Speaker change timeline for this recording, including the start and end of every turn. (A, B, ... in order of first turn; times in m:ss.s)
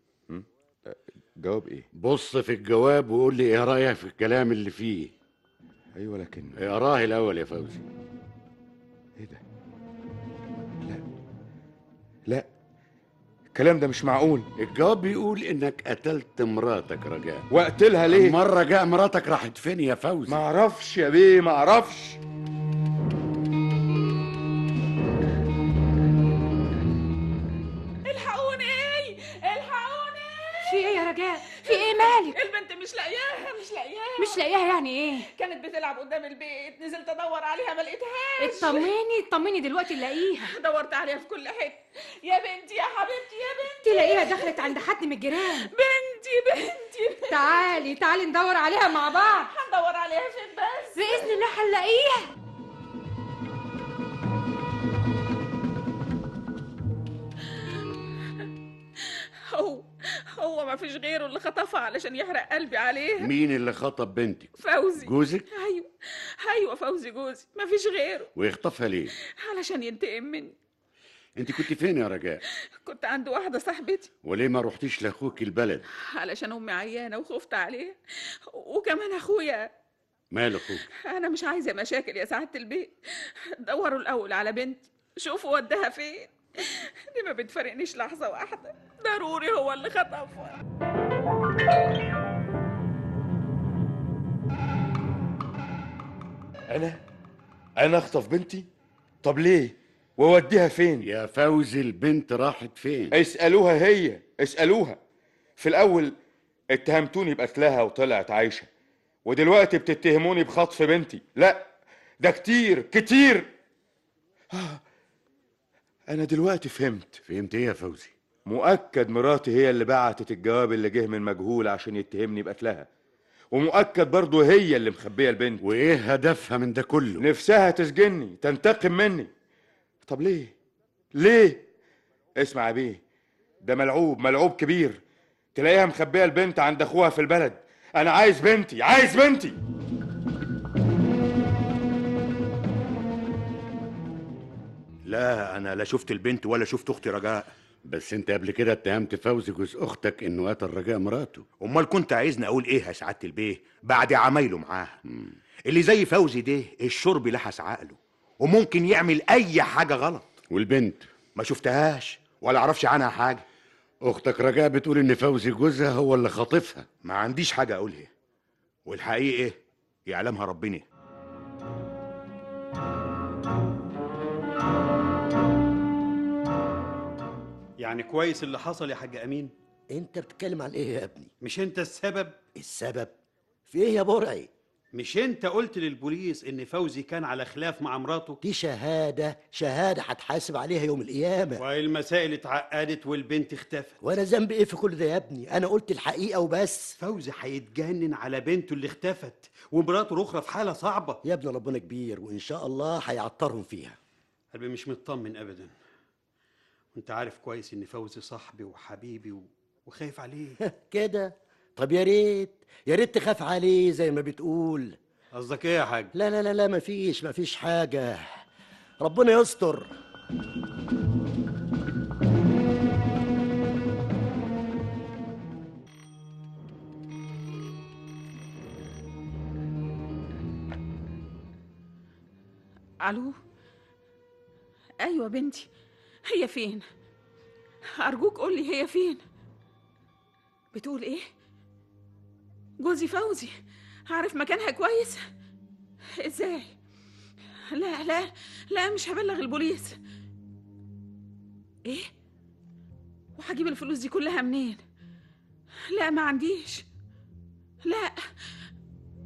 0:00.3-0:01.9 A
0:01.9-0:05.1 B
0:06.0-0:06.6 A
0:06.6-0:07.8 B
0:09.2-0:09.4 A
0:13.5-0:14.5 A
0:14.6-0:17.5 B
0:17.5-0:18.4 A
0:18.1-0:20.4 B
0:20.3-0:22.2 A
0:28.0-0:34.4 C
0:30.7-0:32.4 D
0:34.2-0:35.3 D
0:35.3-0:38.9 C
0:38.4-0:40.5 D
0:40.4-0:44.8 C
0:43.8-0:45.7 D
0:45.6-0:47.7 C
0:47.3-0:49.5 D
0:49.3-0:51.3 C
0:51.0-0:52.3 D
0:59.0-1:03.3 C
1:03.2-1:05.5 B
1:04.6-1:05.9 C
1:06.4-1:08.3 C
1:08.4-1:09.1 B
1:09.4-1:10.5 C
1:11.4-1:12.4 B
1:12.8-1:14.1 C
1:14.2-1:15.9 B
1:16.1-1:18.0 C
1:18.5-1:19.7 C
1:20.3-1:20.9 B
1:21.0-1:30.6 C
1:36.7-1:37.0 A
1:37.8-1:38.7 A
1:39.2-1:41.1 A
1:41.0-1:43.2 B
1:43.1-1:45.0 A
1:45.6-1:46.2 A
1:46.7-1:48.7 A
1:49.2-1:53.5 A
1:54.5-1:54.8 A
1:56.1-1:57.2 A
1:57.3-1:58.1 B
1:58.5-2:02.9 A
2:03.5-2:05.6 A
2:05.6-2:07.2 B
2:07.2-2:09.3 A
2:10.0-2:10.5 A
2:11.1-2:11.6 A
2:12.4-2:13.0 A
2:13.6-2:15.0 A
2:15.6-2:19.6 A
2:25.1-2:27.5 E
2:27.8-2:31.4 B
2:31.6-2:35.0 E
2:35.1-2:35.4 B
2:35.7-2:40.4 E
2:40.5-2:41.1 B
2:41.4-2:43.4 E
2:44.0-2:46.9 B
2:47.0-2:48.1 E
2:48.9-2:49.6 E
2:50.1-2:50.8 E
2:57.8-2:59.5 F
2:59.9-3:01.3 G
3:01.4-3:02.4 F
3:02.6-3:03.1 G
3:03.7-3:04.5 G
3:04.9-3:08.4 F
3:08.4-3:11.6 G
3:11.6-3:14.0 F
3:14.0-3:17.0 G
3:17.0-3:21.2 F
3:21.2-3:24.0 G
3:24.5-3:25.7 F
3:26.9-3:30.6 F
3:30.6-3:35.0 G
3:35.4-3:36.1 F
3:36.1-3:38.2 G
3:39.0-3:39.9 G
3:53.0-3:53.4 C
3:55.0-3:55.7 C
3:56.3-3:56.8 C
3:58.0-3:59.2 C
4:00.7-4:01.2 C
4:02.8-4:03.5 C
4:04.1-4:05.2 C
4:06.2-4:06.7 C
4:07.7-4:10.0 C
4:11.8-4:12.1 C
4:13.4-4:14.8 C
4:15.9-4:16.9 C
4:17.8-4:18.2 C